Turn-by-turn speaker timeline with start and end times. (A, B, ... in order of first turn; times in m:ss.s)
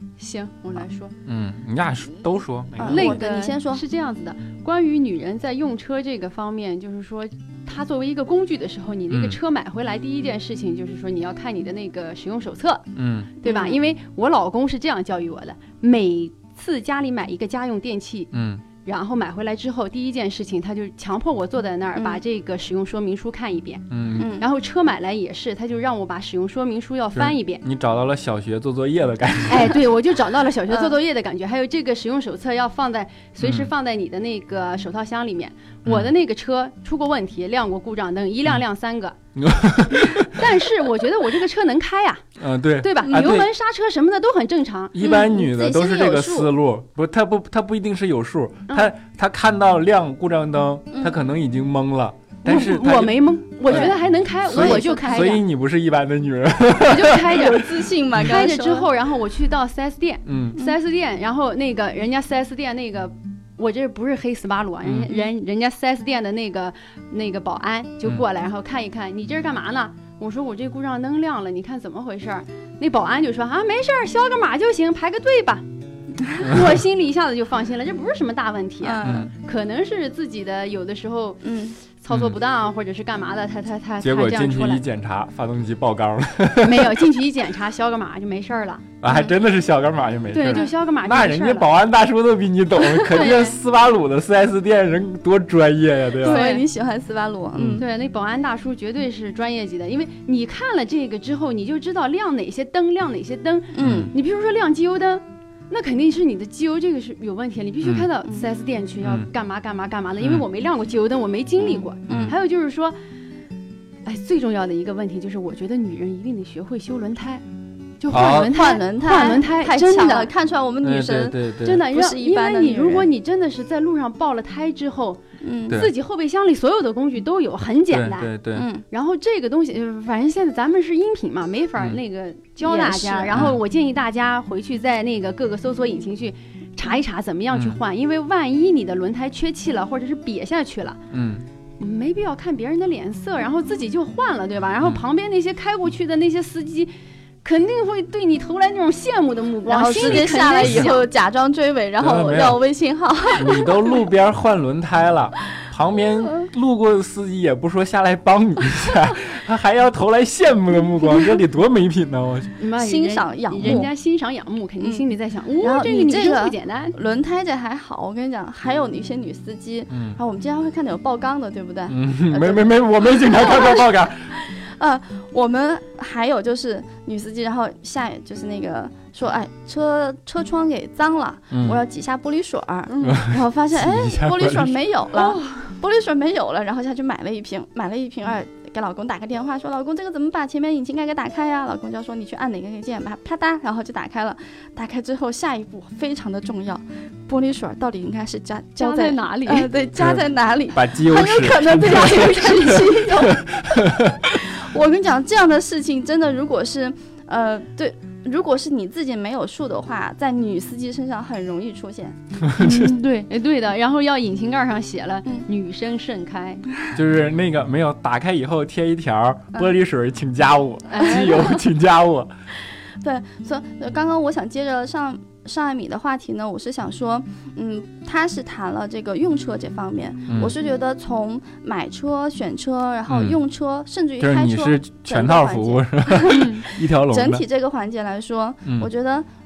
0:00.2-0:01.1 A
0:01.2-0:03.2 B
0:02.8-0:03.8 C
0:02.8-0:12.9 A
0:09.1-0:09.4 B
0:12.9-0:13.3 B
0:13.4-0:18.3 A
0:13.4-0:13.8 C
0:18.3-0:18.6 B
0:18.8-0:23.9 A
0:23.9-0:24.3 B
0:24.2-0:24.4 C
0:24.4-0:27.6 A
0:27.1-0:29.8 B
0:29.5-0:39.2 A
0:33.4-0:33.7 B
0:35.8-0:36.1 B
0:39.4-0:40.4 B
0:40.0-0:42.2 A
0:42.4-0:43.5 B
0:42.8-0:45.0 A
0:44.9-0:53.9 B
0:45.0-0:46.5 C
0:52.4-0:55.4 A
0:53.7-0:54.0 C
0:54.4-0:57.5 B
0:54.5-0:55.4 C
0:56.8-1:15.6 A
0:57.2-0:58.9 C
1:00.3-1:00.6 B
1:04.8-1:05.1 B
1:16.3-1:24.8 A
1:18.8-1:19.3 C
1:19.0-1:19.3 B
1:21.4-1:21.8 C
1:22.1-1:22.4 B
1:24.0-1:27.0 B
1:26.6-1:28.9 A
1:29.0-1:36.4 B
1:29.0-1:29.3 C
1:30.3-1:31.7 A
1:33.0-1:33.6 A
1:36.2-1:36.6 A
1:36.2-1:37.8 C
1:37.5-1:37.8 B
1:37.8-1:53.0 A
1:43.7-1:44.1 C
1:43.8-1:44.1 B
1:47.8-1:48.1 B
1:49.0-1:49.3 B
1:50.2-1:50.4 B
1:52.1-1:52.4 B
1:54.0-1:57.4 A
1:58.0-2:00.3 A
1:58.1-1:58.5 B
1:58.1-2:01.4 C
2:00.8-2:01.9 B
2:01.6-2:08.3 A
2:01.9-2:03.1 C
2:05.4-2:05.8 C
2:07.9-2:08.7 B
2:08.5-2:08.8 C
2:08.9-2:21.0 A
2:12.6-2:13.6 C
2:13.3-2:13.6 B
2:17.5-2:17.8 B
2:21.1-2:21.4 B
2:21.8-2:26.9 A
2:27.4-2:31.0 A
2:29.7-2:33.7 C
2:30.0-2:30.9 B
2:32.0-2:32.6 B
2:33.3-2:42.6 B
2:42.6-2:46.9 A
2:42.7-2:43.9 C
2:45.6-3:32.2 C
2:49.9-2:50.2 B
2:51.9-2:54.3 B
3:01.5-3:01.8 B
3:02.9-3:03.2 A
3:03.0-3:04.8 B
3:05.1-3:05.7 A
3:18.8-3:19.7 A
3:20.0-3:24.4 B
3:21.8-3:23.4 A
3:32.4-3:32.9 B
3:32.6-3:36.6 A
3:36.9-3:42.3 B
3:40.9-3:41.6 A
3:43.0-3:59.3 C
3:50.3-3:50.5 B
3:53.1-3:53.4 B
3:54.2-3:57.4 B
3:56.3-3:56.6 A
3:58.6-3:58.9 B